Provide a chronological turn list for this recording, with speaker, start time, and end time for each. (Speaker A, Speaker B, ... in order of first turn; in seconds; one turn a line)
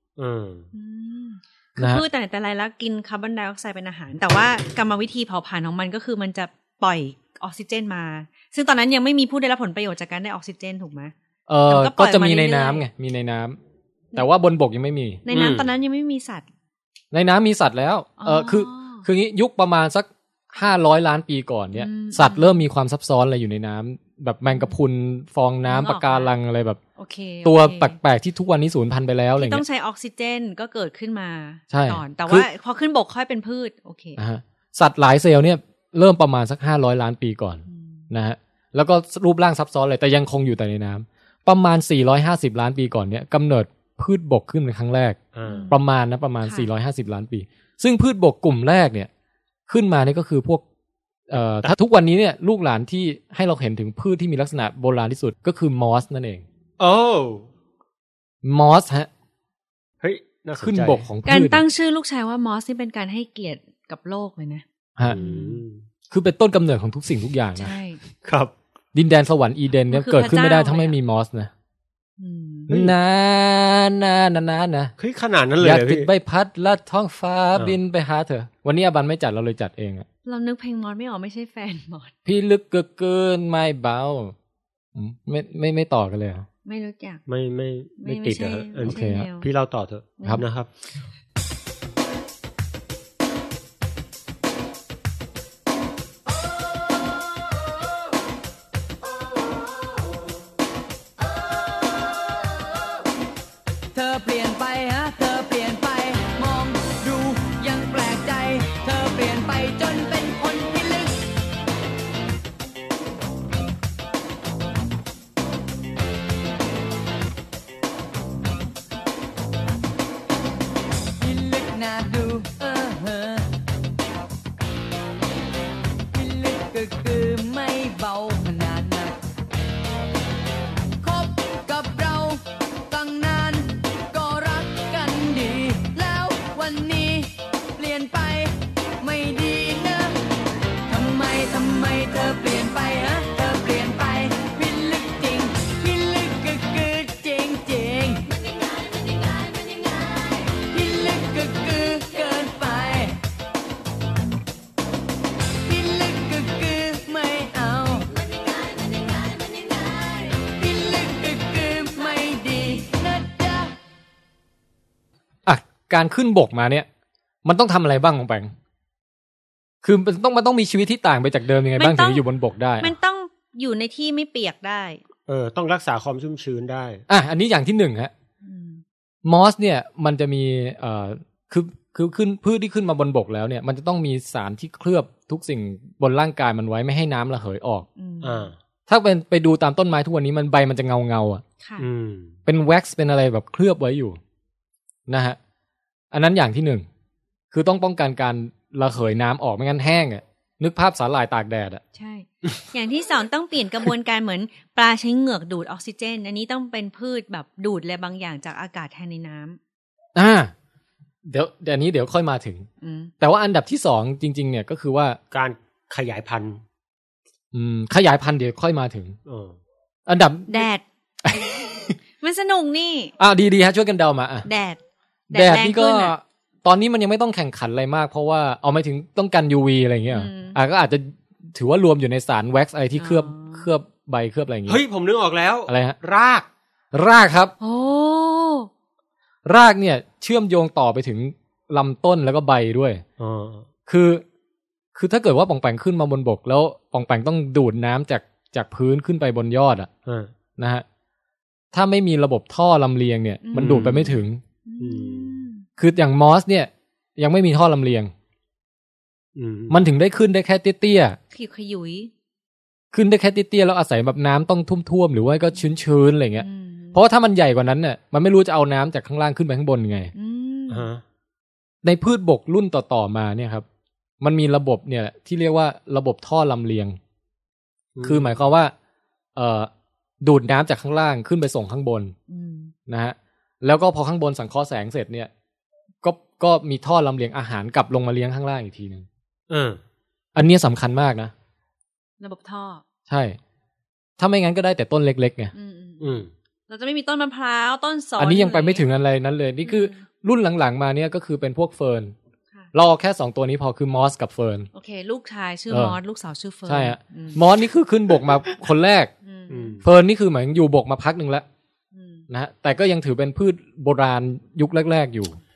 Speaker A: 0.2-0.7
Speaker B: 0.7-11.1
Speaker C: 1.8-2.0
Speaker C: 11.5-13.6
Speaker B: 11.7-12.8
Speaker C: 14.1-15.2
Speaker B: 15.2-16.4
Speaker A: 15.3-15.7
Speaker C: 17.1-26.8
Speaker B: 18.2-19.1
Speaker B: 21.7-22.6
Speaker B: 24.4-24.7
Speaker B: 25.6-26.3
Speaker B: 27.0-27.9
Speaker C: 27.4-29.6
Speaker B: 29.4-34.2
Speaker C: 31.7-32.5
Speaker C: 34.2-45.2
Speaker B: 37.7-38.1
Speaker A: 45.3-45.7
Speaker B: 45.5-45.8
Speaker C: 45.7-49.1
Speaker B: 46.4-46.7
Speaker C: 49.7-50.6
Speaker C: 51.3-56.4
Speaker A: 56.8-57.5
Speaker C: 58.4-59.1
Speaker A: 60.0-61.1
Speaker C: 60.6-61.6
Speaker B: 61.2-64.6
Speaker A: 65.0-65.8
Speaker B: 65.2-65.6
Speaker C: 66.1-67.7
Speaker B: 67.5-68.0
Speaker A: 68.2-68.5
Speaker C: 68.9-71.5
Speaker B: 69.9-71.0
Speaker B: 72.2-72.7
Speaker C: 72.7-74.9
Speaker A: 75.0-76.1
Speaker C: 75.6-80.1
Speaker B: 80.2-82.1
Speaker C: 82.2-84.3
Speaker C: 84.9-86.5
Speaker B: 86.6-87.2
Speaker A: 87.3-90.7
Speaker B: 88.0-89.5
Speaker C: 88.8-89.2
Speaker D: 103.9-111.2
Speaker D: 121.2-123.5
Speaker D: 126.1-129.2
Speaker D: 131.0-140.2
Speaker D: 140.9-153.2
Speaker D: 155.6-163.7
Speaker C: 165.4-166.9
Speaker C: 167.4-168.5
Speaker C: 169.8-172.9
Speaker B: 171.8-172.2
Speaker B: 172.8-175.0
Speaker A: 175.3-177.0
Speaker C: 177.1-178.1
Speaker B: 178.4-178.8
Speaker C: 179.2-187.9
Speaker B: 188.0-188.5
Speaker A: 188.2-188.5
Speaker C: 188.9-191.4
Speaker B: 191.6-191.9
Speaker A: 191.8-192.3
Speaker C: 192.5-194.2
Speaker C: 195.1-195.4
Speaker C: 196.1-196.9
Speaker C: 197.5-201.8
Speaker B: 201.9-209.6
Speaker C: 210.1-210.5
Speaker C: 211.3-212.7
Speaker B: 212.8-213.1
Speaker C: 213.2-215.2
Speaker A: 215.3-216.6
Speaker C: 217.5-219.2
Speaker A: 219.2-219.6
Speaker C: 220.1-220.7
Speaker B: 220.5-220.8
Speaker C: 221.2-221.9
Speaker B: 222.2-223.1
Speaker C: 223.2-224.5
Speaker B: 224.4-224.8
Speaker B: 225.3-226.1
Speaker C: 225.3-234.8
Speaker B: 230.1-230.6
Speaker B: 233.0-233.7
Speaker A: 234.7-236.5
Speaker C: 235.7-235.9
Speaker C: 236.9-237.5
Speaker B: 237.6-238.7
Speaker C: 239.4-243.0
Speaker A: 243.2-243.7
Speaker C: 243.9-244.2
Speaker C: 244.9-249.9
Speaker A: 250.1-250.3
Speaker C: 250.6-250.8
Speaker C: 251.7-254.4
Speaker B: 253.4-255.7
Speaker A: 253.6-254.2
Speaker A: 254.8-255.4
Speaker C: 255.8-258.1
Speaker A: 259.4-259.8
Speaker C: 259.7-261.2
Speaker B: 261.3-262.1
Speaker C: 262.9-270.1
Speaker B: 266.4-267.0
Speaker B: 270.1-270.9
Speaker A: 270.7-271.0
Speaker C: 271.8-273.6
Speaker C: 274.2-277.0
Speaker A: 277.9-278.4
Speaker C: 278.0-278.7
Speaker C: 279.4-279.7
Speaker C: 280.2-282.1
Speaker B: 282.3-282.7
Speaker C: 282.9-285.3
Speaker C: 286.0-289.1
Speaker A: 289.5-289.8
Speaker C: 290.3-291.3
Speaker B: 292.2-292.8
Speaker C: 293.1-293.4
Speaker C: 294.2-295.5
Speaker B: 295.5-298.8
Speaker A: 296.0-296.3
Speaker C: 298.2-302.1
Speaker B: 299.6-300.1
Speaker C: 302.7-304.7
Speaker B: 304.7-307.4
Speaker C: 305.7-306.0
Speaker C: 306.7-309.1
Speaker B: 309.2-309.8
Speaker A: 309.5-309.8
Speaker C: 309.8-311.4
Speaker B: 311.9-312.2
Speaker C: 312.3-315.4